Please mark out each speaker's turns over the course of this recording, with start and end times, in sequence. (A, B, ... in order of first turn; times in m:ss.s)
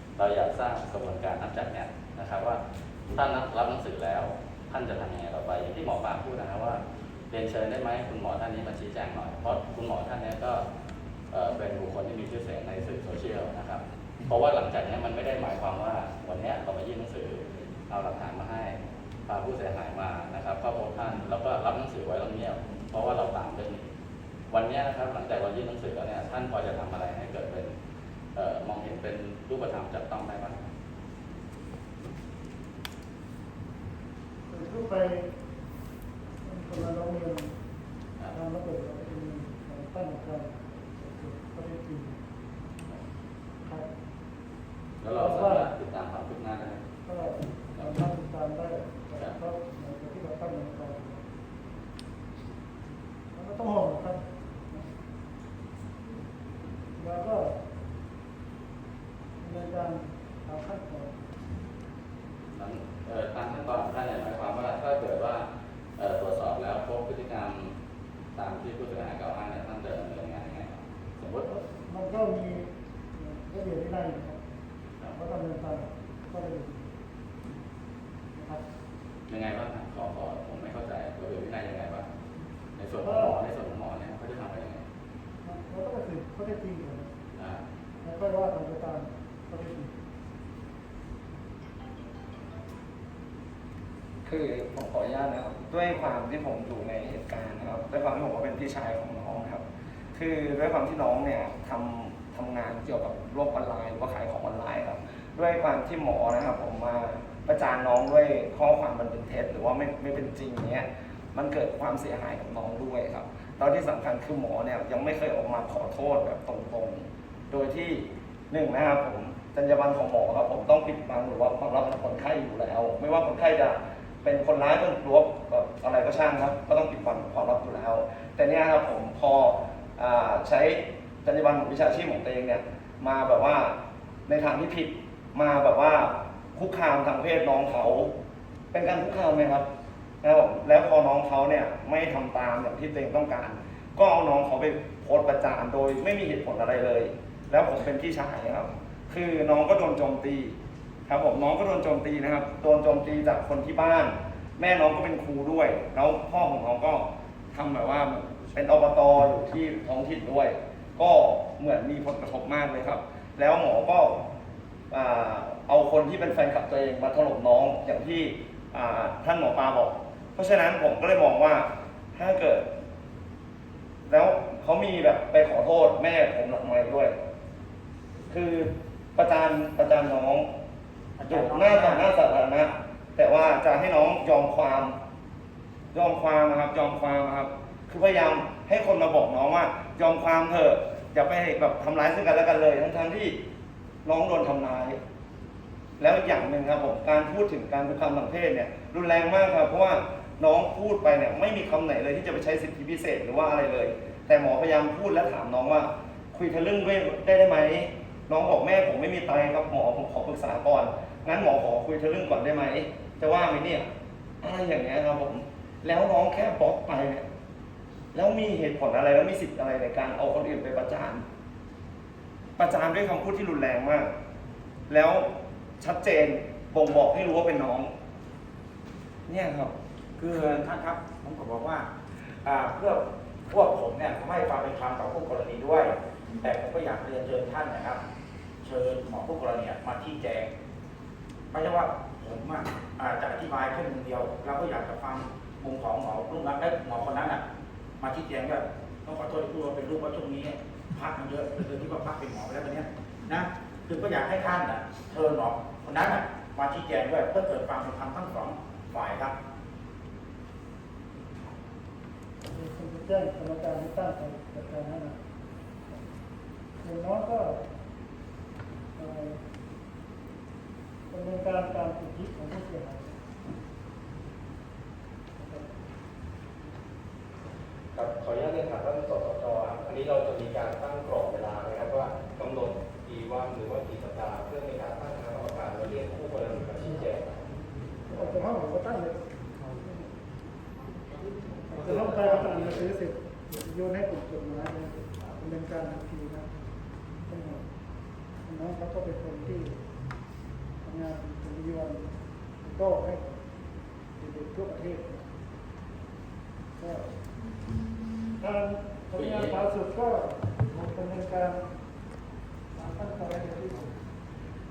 0:00.2-0:10.6 A
0:11.3-0:23.8 A
0:24.5-0:27.7 A
0:28.4-0:30.6 A
0:34.5-0:35.2 B
0:36.4-0:37.5 B
0:38.3-0:42.2 B
0:45.0-0:46.8 A
0:45.2-0:45.7 B
0:47.1-0:51.2 B
0:53.4-0:54.2 B
0:57.0-0:57.6 B
0:59.4-1:01.1 B
1:02.5-1:07.7 A
1:08.4-1:11.5 A
1:11.5-1:12.7 B
1:13.2-1:14.4 B
1:15.1-1:16.8 B
1:18.4-1:18.6 B
1:19.3-1:22.1 A
1:22.8-1:24.8 A
1:23.0-1:23.4 B
1:25.4-1:27.1 B
1:27.4-1:27.6 A
1:28.0-1:29.9 B
1:34.2-1:39.6 C
1:40.1-2:18.1 C
2:18.7-2:19.7 C
2:20.2-2:30.6 C
2:31.1-2:44.2 C
2:44.9-2:52.7 C
2:54.1-2:57.2 C
2:58.3-3:00.5 C
3:01.2-3:02.1 D
3:01.3-3:05.0 C
3:05.9-3:13.4 C
3:14.0-3:15.0 C
3:16.0-3:33.9 C
3:34.4-3:37.2 C
3:38.1-3:41.2 C
3:42.6-3:44.1 C
3:44.9-3:45.3 C
3:45.8-3:47.9 C
3:49.3-3:49.7 C
3:50.2-3:51.9 D
3:52.4-3:58.0 D
3:58.6-4:00.5 D
4:01.5-4:07.4 D
4:08.0-4:19.3 D
4:22.5-4:25.2 B
4:26.8-4:27.6 B
4:29.0-4:29.4 B
4:31.1-4:33.1 B
4:35.4-4:35.6 B
4:38.0-4:47.4 E
4:48.1-4:49.2 B
4:51.7-4:56.5 B
4:51.7-4:52.9 E
4:57.3-4:57.6 B
4:58.5-4:59.8 B
5:00.8-5:02.1 B
5:02.6-5:03.3 B
5:04.2-5:05.2 B
5:06.8-5:07.0 B
5:08.4-5:11.6 B
5:09.2-5:09.6 A
5:12.8-5:13.9 B